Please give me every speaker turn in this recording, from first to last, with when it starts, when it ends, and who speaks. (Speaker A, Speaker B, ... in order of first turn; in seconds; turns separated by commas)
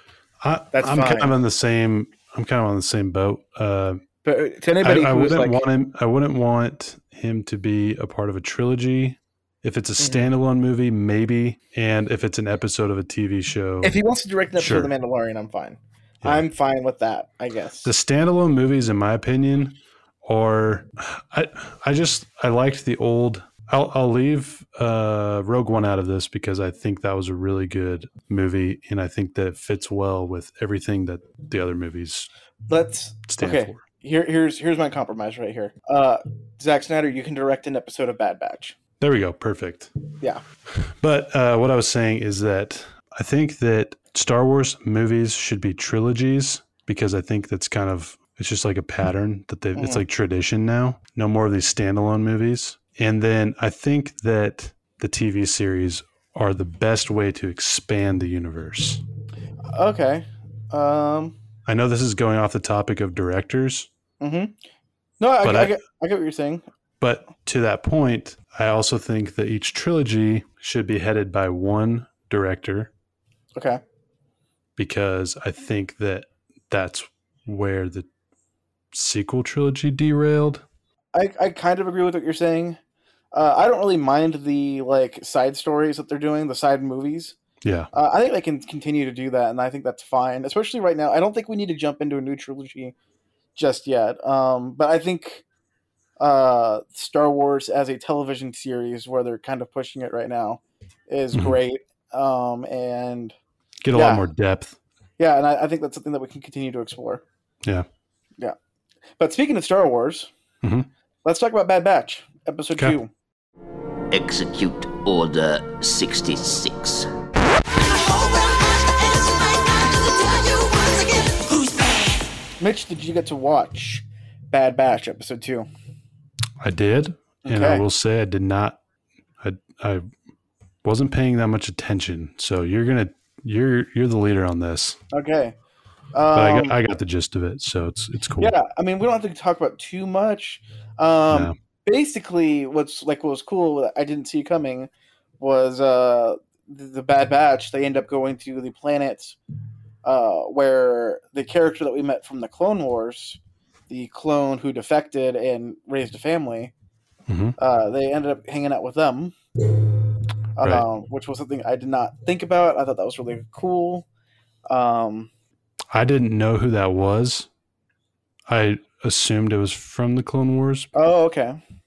Speaker A: 0.4-4.0, Speaker B: 0.7-1.3, Speaker B: 4.2-5.6, Speaker A: 4.8-13.9, Speaker B: 10.0-10.3, Speaker B: 13.8-17.9, Speaker A: 14.6-14.9, Speaker A: 17.8-32.3, Speaker B: 32.7-38.8, Speaker A: 33.3-33.8, Speaker A: 39.0-39.9, Speaker A: 40.8-59.0, Speaker B: 49.7-50.0, Speaker B: 59.7-61.4, Speaker A: 61.6-63.9, Speaker B: 64.2-64.5, Speaker B: 65.2-66.6, Speaker A: 65.4-65.8, Speaker A: 67.0-72.9, Speaker B: 73.5-73.8, Speaker A: 74.8-78.1, Speaker A: 78.9-80.6, Speaker B: 81.1-82.8, Speaker B: 83.3-87.3, Speaker A: 87.6-87.9, Speaker B: 87.9-92.9, Speaker B: 93.5-95.4, Speaker B: 96.2-103.3, Speaker A: 103.8-104.8, Speaker B: 103.9-104.2, Speaker B: 105.2-107.2, Speaker B: 109.2-110.3, Speaker A: 110.6-110.9, Speaker B: 111.2-113.1, Speaker C: 114.1-117.1, Speaker C: 117.8-122.2, Speaker B: 122.6-125.7, Speaker A: 126.6-128.8, Speaker B: 127.4-127.8, Speaker A: 129.4-130.1, Speaker A: 130.8-135.0, Speaker B: 135.1-135.6, Speaker B: 136.1-136.7, Speaker A: 136.3-138.5, Speaker B: 138.4-149.4, Speaker B: 150.0-156.7, Speaker A: 157.3-157.6, Speaker B: 157.6-159.3, Speaker B: 160.6-164.1, Speaker B: 164.7-165.3, Speaker A: 165.9-167.5, Speaker A: 168.5-170.9, Speaker B: 170.9-171.6